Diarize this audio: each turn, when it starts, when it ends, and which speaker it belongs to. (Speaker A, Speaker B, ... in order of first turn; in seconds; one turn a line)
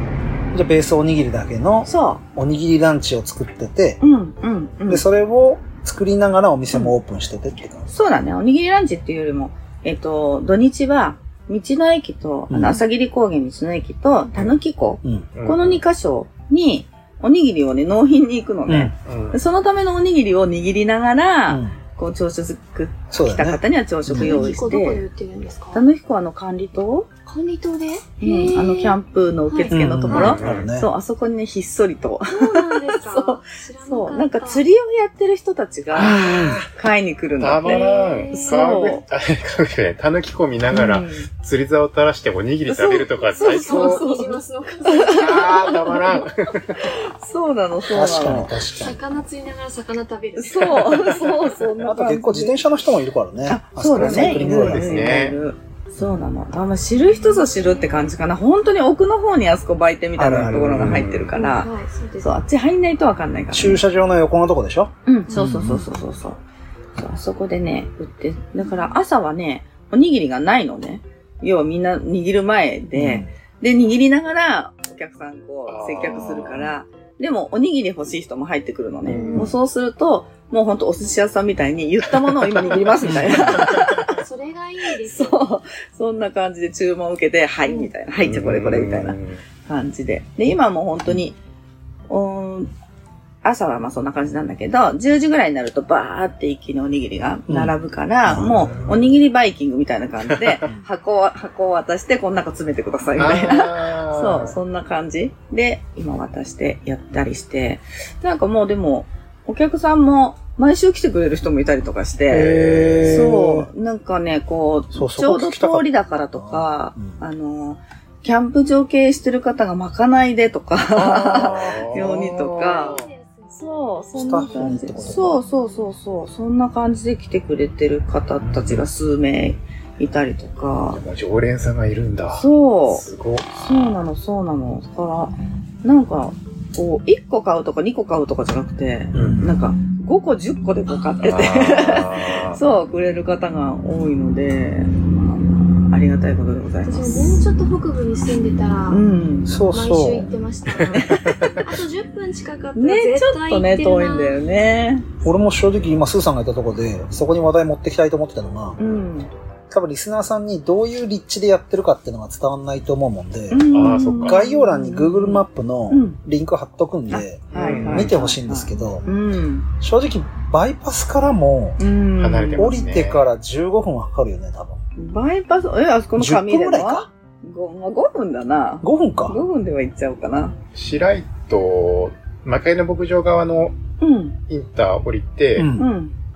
Speaker A: 0.5-4.0
Speaker B: 1.9-2.2
Speaker B: 4.0-5.0
Speaker A: 4.9-7.9
Speaker B: 7.9-25.1
Speaker A: 12.5-12.8
Speaker A: 15.0-15.3
Speaker C: 15.3-15.8
Speaker A: 18.7-18.9
Speaker C: 19.1-19.4
Speaker A: 21.5-21.8
Speaker A: 23.1-24.5
Speaker D: 24.1-25.8
Speaker B: 25.7-27.1
Speaker D: 27.3-30.4
Speaker B: 28.2-39.0
Speaker A: 29.7-30.9
Speaker C: 30.1-30.7
Speaker D: 32.3-34.6
Speaker C: 35.9-36.7
Speaker A: 36.1-36.6
Speaker C: 37.4-44.0
Speaker D: 37.6-38.6
Speaker B: 40.7-41.3
Speaker B: 42.7-46.2
Speaker D: 43.4-46.2
Speaker C: 45.1-46.9
Speaker B: 46.8-48.6
Speaker A: 47.9-49.0
Speaker D: 48.7-51.5
Speaker B: 50.4-52.6
Speaker A: 51.8-55.1
Speaker B: 53.5-61.7
Speaker C: 54.0-55.4
Speaker A: 60.2-61.1
Speaker C: 60.3-61.4
Speaker D: 61.4-62.4
Speaker B: 62.2-63.8
Speaker A: 63.5-65.9
Speaker B: 65.1-66.4
Speaker B: 67.0-84.2
Speaker A: 72.9-73.3
Speaker C: 75.7-76.7
Speaker C: 79.1-79.5
Speaker D: 79.1-79.5
Speaker A: 83.0-83.7
Speaker C: 83.0-84.1
Speaker D: 83.6-85.5
Speaker B: 84.9-91.4
Speaker C: 88.2-89.4
Speaker B: 92.1-92.7
Speaker B: 93.4-131.0
Speaker A: 97.5-97.7
Speaker A: 98.2-98.9
Speaker C: 98.4-99.2
Speaker C: 100.4-100.7
Speaker C: 103.2-104.6
Speaker C: 112.3-113.3
Speaker A: 112.3-113.7
Speaker A: 114.9-117.2
Speaker C: 120.9-123.1
Speaker D: 122.4-123.6
Speaker A: 124.2-125.4
Speaker D: 125.4-125.7
Speaker C: 128.5-128.8
Speaker C: 130.9-133.5
Speaker B: 132.3-133.0
Speaker B: 133.6-147.4
Speaker C: 139.1-139.4
Speaker A: 139.1-139.6
Speaker C: 141.2-142.6
Speaker D: 146.8-149.0
Speaker B: 148.9-149.6
Speaker A: 149.5-150.3
Speaker D: 149.7-154.6
Speaker C: 150.7-151.7
Speaker B: 150.9-151.4
Speaker B: 152.8-155.1
Speaker A: 155.2-158.8
Speaker B: 158.8-159.3
Speaker A: 159.7-169.0
Speaker B: 163.5-166.2
Speaker C: 163.7-164.4
Speaker B: 167.1-169.7
Speaker C: 167.5-168.1
Speaker D: 168.8-169.3
Speaker A: 169.8-171.8
Speaker B: 171.8-172.8
Speaker C: 172.2-173.2
Speaker A: 172.6-174.8
Speaker B: 175.0-180.6
Speaker A: 176.2-177.1
Speaker A: 178.8-179.4
Speaker C: 180.8-183.8
Speaker B: 184.0-184.4
Speaker C: 184.5-185.7
Speaker A: 185.6-185.9
Speaker B: 185.8-186.1